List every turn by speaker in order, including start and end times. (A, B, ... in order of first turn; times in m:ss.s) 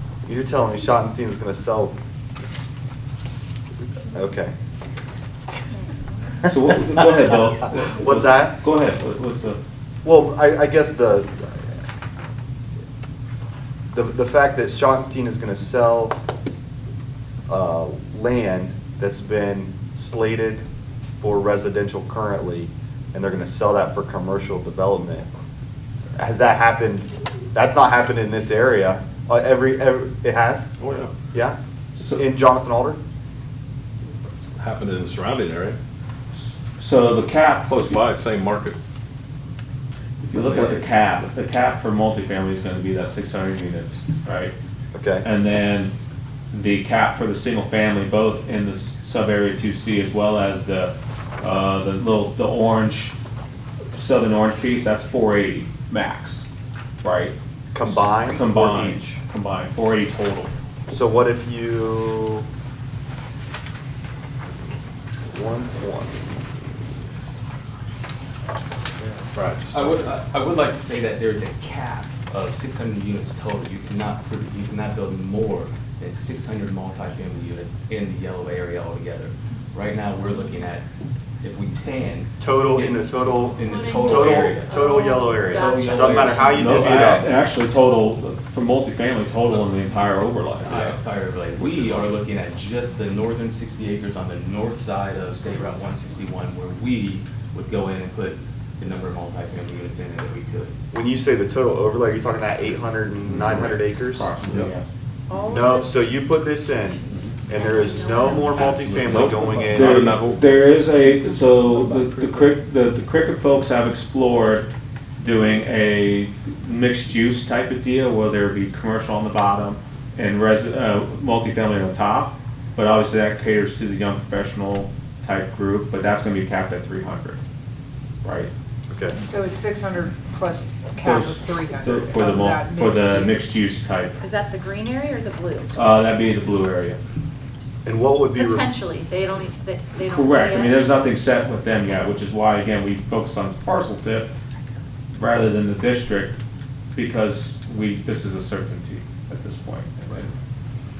0:00.2-0:01.9 A
0:04.1-0:04.5 A
0:06.5-0:09.6 B
0:06.7-0:08.6 A
0:10.0-0:11.6 A
0:13.9-0:16.2 A
0:17.5-0:20.6 A
0:21.2-0:25.3 A
0:26.2-0:30.7 A
0:30.8-0:31.1 C
0:32.0-0:32.2 B
0:32.1-0:33.0 A
0:34.6-0:35.8 C
0:36.3-0:38.0 B
0:37.7-0:38.7 C
0:40.2-0:44.5 B
0:44.9-0:45.3 A
0:45.2-0:45.9 B
0:46.5-0:53.2 B
0:53.9-0:56.5 B
0:57.0-1:00.5 B
0:57.7-0:59.2 A
1:00.9-1:02.5 A
1:05.3-1:07.3 A
1:09.3-1:09.7 C
1:09.7-1:20.9 D
1:21.4-1:24.9 D
1:22.4-1:27.3 A
1:23.6-1:26.6 E
1:25.5-1:26.9 D
1:26.5-1:31.0 B
1:30.6-1:40.7 D
1:40.9-1:44.3 A
1:43.3-1:44.8 B
1:45.3-1:46.1 E
1:45.5-1:50.1 A
1:47.5-1:48.9 E
1:48.9-1:50.4 C
1:49.7-1:54.7 B
1:51.7-1:52.4 C
1:55.2-2:07.4 B
2:08.2-2:08.5 B
2:08.9-2:09.2 A
2:09.2-2:13.7 F
2:11.0-2:14.2 B
2:14.2-2:15.9 E
2:15.7-2:17.0 B
2:17.8-2:18.7 A
2:18.4-2:20.8 E
2:20.1-2:24.3 B
2:25.1-2:26.4 B
2:26.9-2:30.3 B